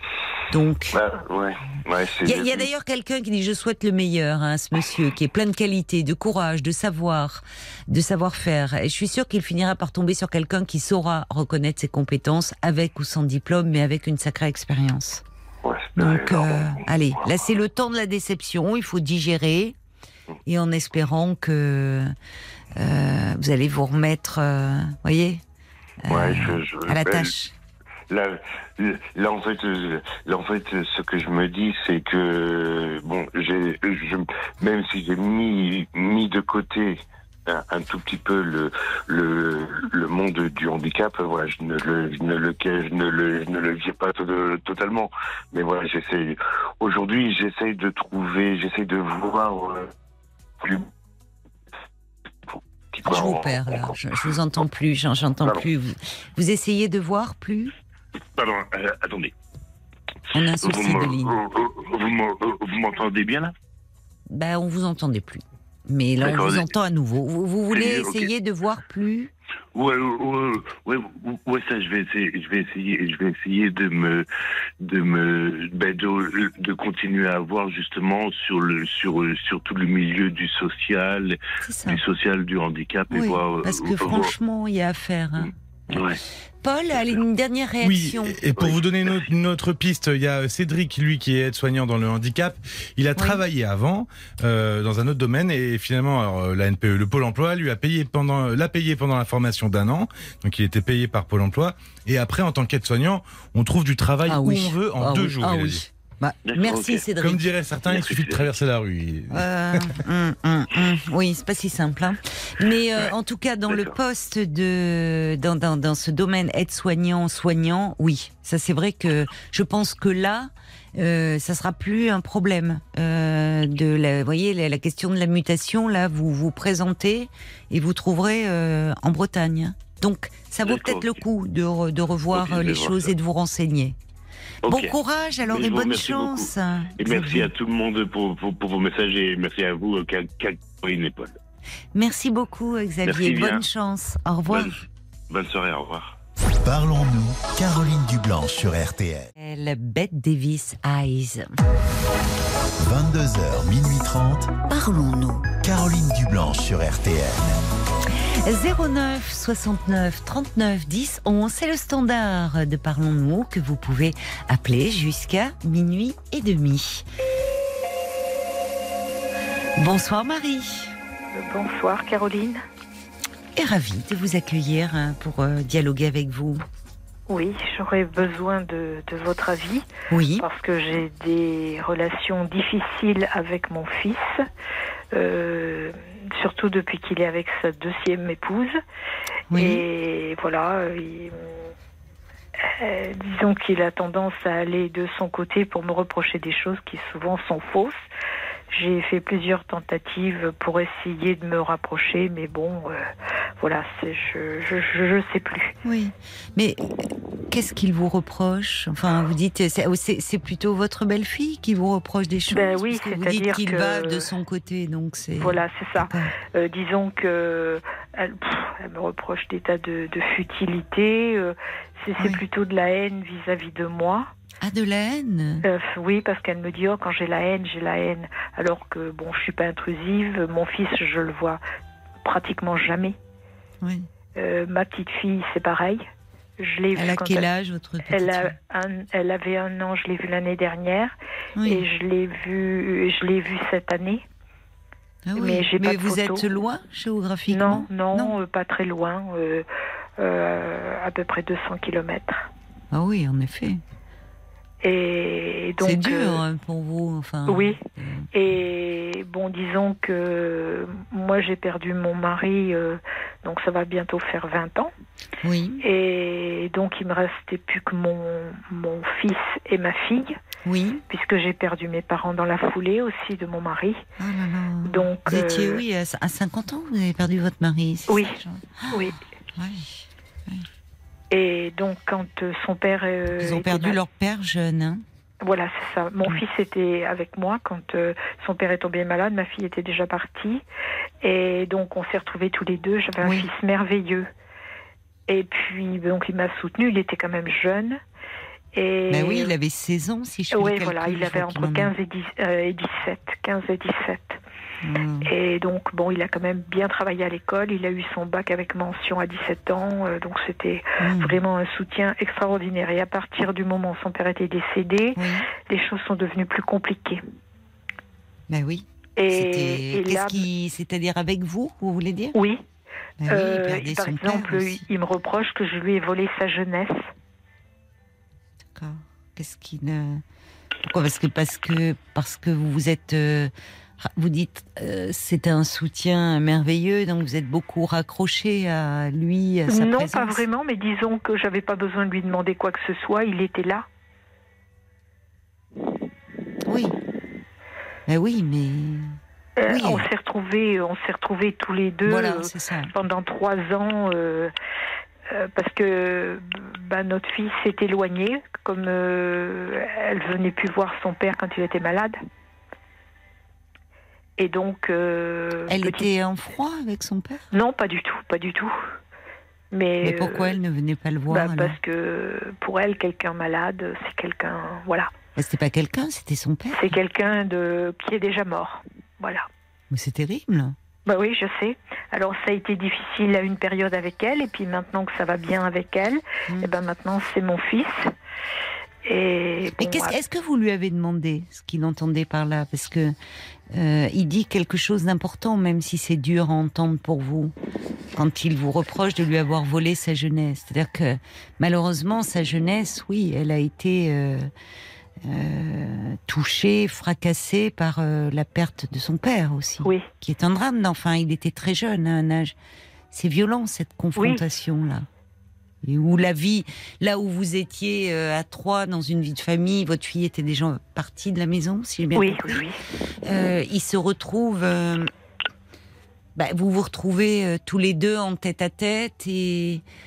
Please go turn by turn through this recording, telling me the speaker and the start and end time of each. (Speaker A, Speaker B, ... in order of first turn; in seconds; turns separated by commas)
Speaker A: 0.5-1.0, Speaker B: 0.9-2.7, Speaker A: 2.2-15.2, Speaker B: 15.6-16.8, Speaker A: 15.9-19.7, Speaker A: 20.4-22.1, Speaker A: 22.8-25.4, Speaker A: 26.0-27.5, Speaker B: 26.1-27.3, Speaker B: 28.1-49.9, Speaker B: 50.6-50.9, Speaker B: 52.5-54.2, Speaker A: 53.0-57.7, Speaker B: 55.4-55.7, Speaker B: 58.3-59.3, Speaker A: 60.3-61.3, Speaker B: 60.6-63.5, Speaker A: 64.3-69.3, Speaker B: 66.2-66.7, Speaker B: 67.7-68.3, Speaker B: 69.7-74.2, Speaker B: 74.8-84.3, Speaker A: 81.6-82.0, Speaker A: 83.1-86.0, Speaker B: 85.9-86.2, Speaker A: 86.6-88.4, Speaker C: 87.8-105.8, Speaker A: 93.2-93.4, Speaker A: 104.3-107.4, Speaker B: 106.5-107.1, Speaker C: 107.2-110.0, Speaker B: 107.8-108.5, Speaker A: 109.3-133.9, Speaker B: 113.7-113.9, Speaker B: 130.6-131.2, Speaker B: 132.3-133.1, Speaker B: 134.6-134.9, Speaker A: 134.7-137.5, Speaker B: 135.4-141.4, Speaker A: 141.9-144.8, Speaker B: 143.0-143.7, Speaker B: 144.5-146.2, Speaker D: 146.4-149.3, Speaker A: 149.4-151.5, Speaker D: 152.8-154.5, Speaker A: 154.7-155.5, Speaker D: 155.5-157.6, Speaker A: 158.3-167.0, Speaker A: 169.8-170.9, Speaker E: 171.3-172.6, Speaker A: 173.6-176.6, Speaker E: 177.3-179.8, Speaker A: 180.1-180.4, Speaker E: 180.4-184.4, Speaker E: 185.1-188.8, Speaker A: 189.5-189.8, Speaker E: 189.5-191.7, Speaker E: 192.6-198.0, Speaker E: 198.7-205.7, Speaker A: 205.8-216.3, Speaker E: 212.5-214.3, Speaker E: 215.4-224.3, Speaker A: 224.6-225.6, Speaker E: 225.6-231.6, Speaker E: 232.2-233.2, Speaker A: 233.8-234.1, Speaker E: 234.3-236.1, Speaker E: 236.6-237.4, Speaker A: 236.9-238.5, Speaker E: 238.1-241.1, Speaker A: 241.6-241.8, Speaker E: 241.6-244.2, Speaker A: 245.2-248.4, Speaker E: 245.4-246.4, Speaker E: 247.5-249.7, Speaker E: 250.2-252.5, Speaker A: 252.9-253.8, Speaker E: 254.8-256.4, Speaker A: 255.8-258.3, Speaker E: 257.5-257.8, Speaker E: 258.3-264.9, Speaker A: 265.4-265.8, Speaker E: 265.8-270.4, Speaker A: 270.6-271.0, Speaker E: 271.1-274.0, Speaker A: 274.2-279.0, Speaker E: 274.8-275.8, Speaker E: 278.1-278.4, Speaker E: 278.9-279.1, Speaker A: 279.5-280.6, Speaker E: 281.3-284.0, Speaker A: 283.4-285.0, Speaker E: 285.4-290.6, Speaker E: 291.2-294.3, Speaker A: 293.2-293.5, Speaker E: 295.3-298.0, Speaker E: 298.7-299.5, Speaker A: 299.1-301.9, Speaker E: 300.5-304.4, Speaker A: 304.8-305.3, Speaker E: 305.2-317.2, Speaker A: 311.0-311.4, Speaker A: 315.2-315.4, Speaker A: 318.5-322.4, Speaker E: 319.2-320.4, Speaker E: 322.3-322.6, Speaker A: 323.2-324.8, Speaker E: 323.3-327.1, Speaker A: 328.7-330.2, Speaker A: 330.8-340.4, Speaker E: 339.7-343.9, Speaker A: 346.6-346.9, Speaker A: 348.1-350.0, Speaker E: 349.6-354.5, Speaker A: 352.0-352.9, Speaker E: 355.3-362.1, Speaker E: 364.4-366.1, Speaker A: 365.7-367.4, Speaker E: 367.5-368.8, Speaker E: 369.7-370.6, Speaker A: 370.0-371.8, Speaker E: 371.3-375.1, Speaker A: 375.4-376.9, Speaker E: 376.7-379.5, Speaker A: 379.9-380.8, Speaker E: 381.1-388.1, Speaker E: 389.0-390.2, Speaker A: 389.8-393.1, Speaker A: 393.7-397.5, Speaker A: 398.1-404.5, Speaker A: 405.2-412.5, Speaker A: 413.1-415.1, Speaker E: 414.1-414.4, Speaker A: 415.8-422.6, Speaker E: 422.1-422.8, Speaker A: 423.2-425.1, Speaker A: 426.4-429.8